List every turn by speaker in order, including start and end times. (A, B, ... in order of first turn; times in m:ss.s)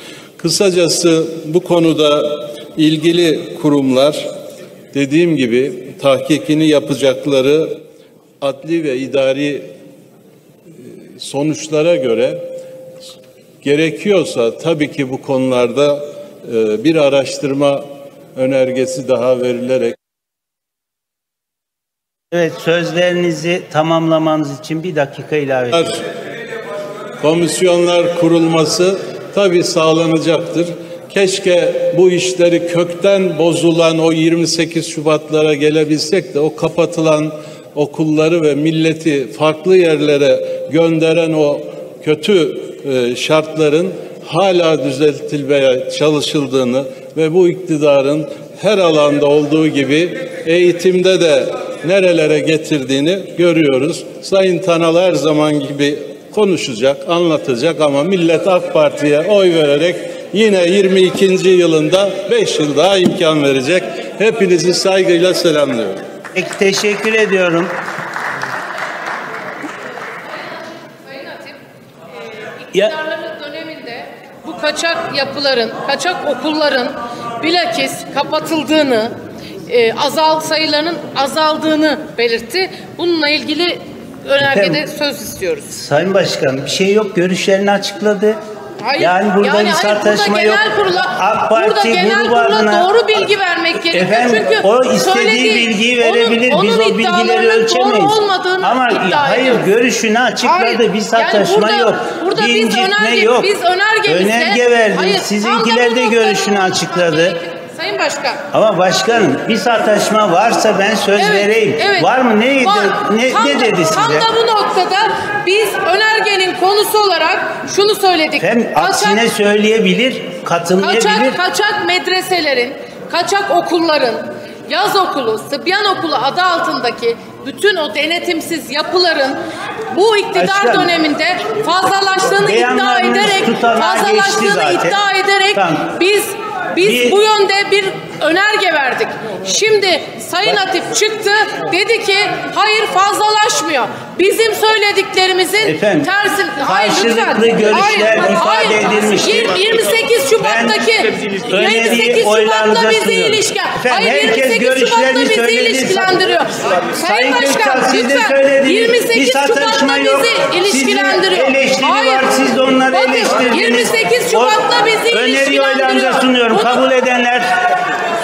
0:00.4-0:04.2 A
0:04.9-0:07.8 A
0:08.4-0:09.7 A
0:11.2-0:12.4 A
0:13.6-0:19.9 A
0:22.3-0:26.0 B
0:27.2-1:06.0 A
1:06.4-1:07.7 B
1:10.3-1:11.6 C
1:12.6-1:19.1 C
1:19.7-1:25.7 C
1:24.4-1:24.8 B
1:25.7-1:28.4 B
1:28.8-1:39.7 C
1:29.0-1:32.9 B
1:33.9-1:43.5 B
1:40.4-1:48.4 C
1:44.0-1:47.4 B
1:48.5-1:54.3 B
1:51.2-1:52.1 C
1:52.6-1:59.2 C
1:58.4-2:01.4 B
2:00.8-2:09.4 C
2:09.9-2:42.3 C
2:10.3-2:10.9 B
2:12.4-2:15.0 B
2:15.5-2:15.9 B
2:16.8-2:17.2 B
2:25.6-2:29.7 B
2:30.4-2:30.8 B
2:31.4-2:36.1 B
2:37.0-2:47.5 B
2:42.9-2:46.8 C